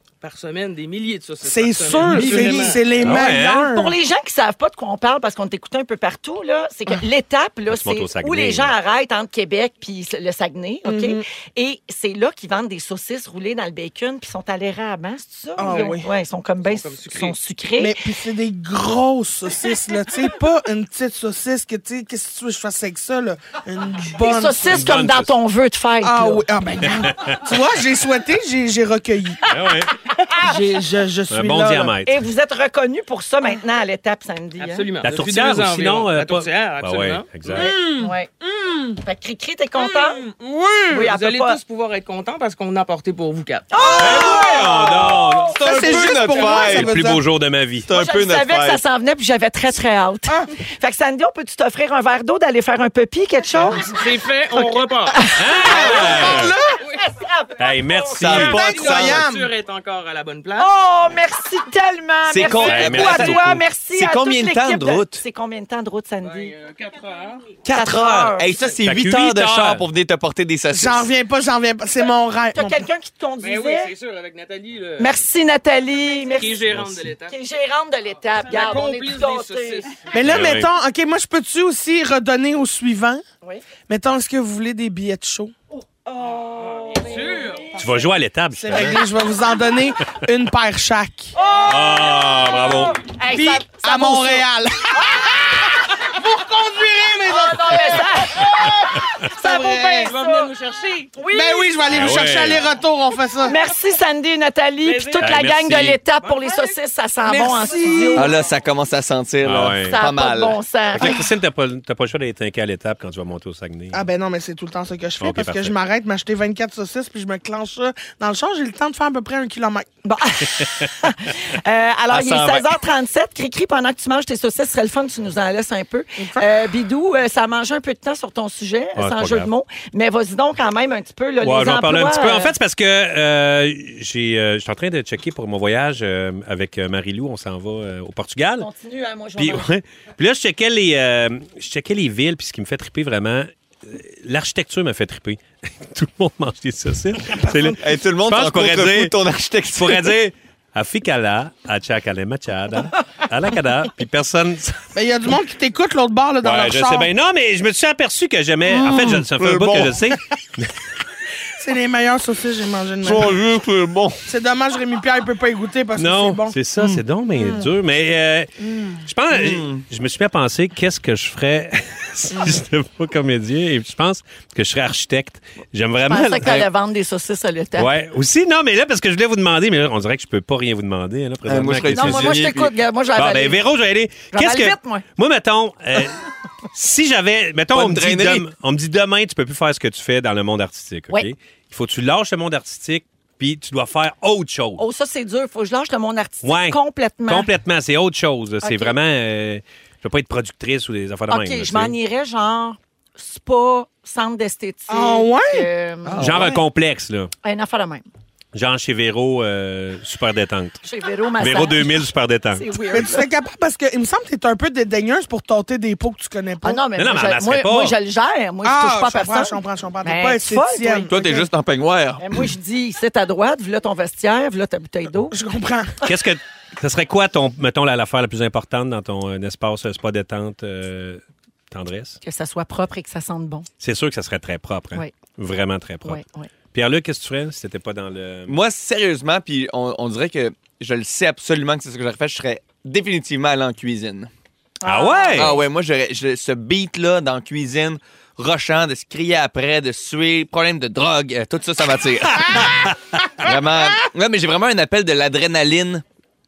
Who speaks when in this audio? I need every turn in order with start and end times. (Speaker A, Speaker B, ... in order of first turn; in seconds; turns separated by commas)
Speaker A: 0.2-3.0, Speaker B: 1.4-4.0, Speaker C: 2.1-18.0, Speaker D: 3.0-3.7, Speaker D: 7.7-8.7, Speaker B: 10.8-11.2, Speaker B: 15.6-16.1, Speaker A: 15.7-16.0, Speaker A: 16.6-17.4, Speaker B: 17.8-24.8, Speaker C: 24.2-26.4, Speaker D: 24.7-25.3, Speaker B: 26.0-29.5, Speaker D: 26.9-27.4, Speaker D: 29.5-29.9, Speaker B: 30.4-32.0, Speaker D: 31.3-32.2, Speaker C: 32.1-34.9, Speaker A: 34.6-37.8, Speaker D: 35.0-37.7, Speaker B: 37.6-39.0, Speaker C: 37.6-38.3, Speaker C: 39.0-40.2, Speaker B: 40.2-40.9, Speaker C: 40.9-41.6, Speaker A: 40.9-44.3, Speaker C: 43.7-45.5, Speaker B: 43.8-44.9, Speaker D: 44.0-45.6, Speaker B: 45.5-47.2, Speaker E: 45.5-47.0, Speaker D: 46.6-47.9, Speaker E: 47.9-48.8, Speaker C: 47.9-54.0, Speaker A: 53.8-55.9, Speaker C: 54.5-57.9, Speaker D: 55.4-56.5, Speaker B: 55.6-56.8, Speaker D: 57.6-58.6, Speaker E: 58.1-59.3, Speaker B: 58.3-59.5, Speaker A: 58.4-60.7, Speaker C: 60.6-66.5, Speaker E: 62.3-65.2, Speaker D: 62.6-63.6, Speaker A: 66.2-67.5, Speaker E: 67.6-71.1, Speaker C: 67.7-68.7, Speaker D: 67.9-68.3, Speaker D: 68.8-69.8, Speaker B: 70.7-72.8, Speaker C: 72.5-73.9, Speaker A: 73.4-75.2, Speaker C: 75.0-79.9, Speaker A: 76.1-77.4, Speaker D: 76.7-77.1, Speaker A: 78.4-80.1, Speaker B: 80.1-83.2, Speaker D: 80.3-80.7, Speaker B: 83.9-85.5, Speaker C: 86.1-87.9, Speaker A: 86.6-87.8, Speaker D: 87.8-89.0, Speaker B: 88.5-91.4, Speaker C: 91.3-95.7, Speaker D: 91.7-93.0, Speaker B: 93.3-100.1, Speaker C: 97.3-100.5, Speaker A: 100.0-101.2, Speaker C: 101.2-101.9, Speaker B: 101.3-103.6, Speaker D: 101.9-102.6, Speaker C: 103.5-108.4, Speaker A: 104.8-105.4, Speaker D: 105.2-106.0, Speaker A: 106.2-106.8, Speaker B: 107.3-108.3, Speaker A: 107.6-107.9, Speaker E: 108.1-110.6, Speaker D: 109.4-110.0, Speaker C: 109.8-111.2, Speaker D: 110.9-114.0, Speaker B: 113.9-119.9, Speaker D: 115.2-115.8, Speaker C: 120.0-132.5, Speaker E: 122.1-122.7, Speaker B: 126.2-126.5, Speaker D: 129.0-129.5, Speaker D: 131.4-138.7, Speaker C: 138.6-139.7, Speaker D: 139.4-149.1, Speaker E: 147.8-150.2, Speaker D: 149.7-154.8, Speaker B: 154.9-157.1, Speaker D: 156.4-160.7, Speaker E: 158.8-160.1, Speaker B: 161.6-163.4, Speaker E: 163.0-164.2, Speaker B: 164.3-166.6, Speaker D: 166.0-176.7, Speaker B: 167.4-167.7, Speaker B: 168.6-169.0, Speaker E: 169.3-169.8, Speaker B: 172.3-172.6, Speaker C: 176.1-177.9, Speaker D: 177.8-182.4, Speaker E: 181.5-182.8, Speaker C: 181.9-183.6, Speaker D: 183.2-194.8, Speaker C: 184.3-185.0, Speaker E: 187.7-188.5, Speaker C: 194.8-197.5, Speaker D: 196.4-201.9, Speaker C: 198.6-199.0, Speaker C: 201.3-206.5, Speaker B: 204.9-205.7, Speaker E: 206.1-206.4, Speaker D: 206.2-207.3, Speaker C: 207.4-208.1, Speaker D: 208.5-210.8, Speaker C: 210.8-213.3, Speaker D: 211.4-212.6, Speaker B: 212.9-216.8, Speaker C: 216.6-221.1, Speaker D: 217.0-217.9, Speaker B: 218.6-221.5, Speaker E: 221.1-222.5, Speaker C: 222.2-225.4, Speaker B: 225.3-226.1, Speaker D: 226.0-232.2, Speaker C: 232.2-233.7, Speaker D: 233.8-236.2, Speaker C: 236.1-236.5, Speaker D: 236.7-238.6, Speaker E: 238.5-244.3, Speaker B: 244.9-245.5, Speaker D: 244.9-245.6, Speaker C: 244.9-245.1, Speaker E: 245.3-256.0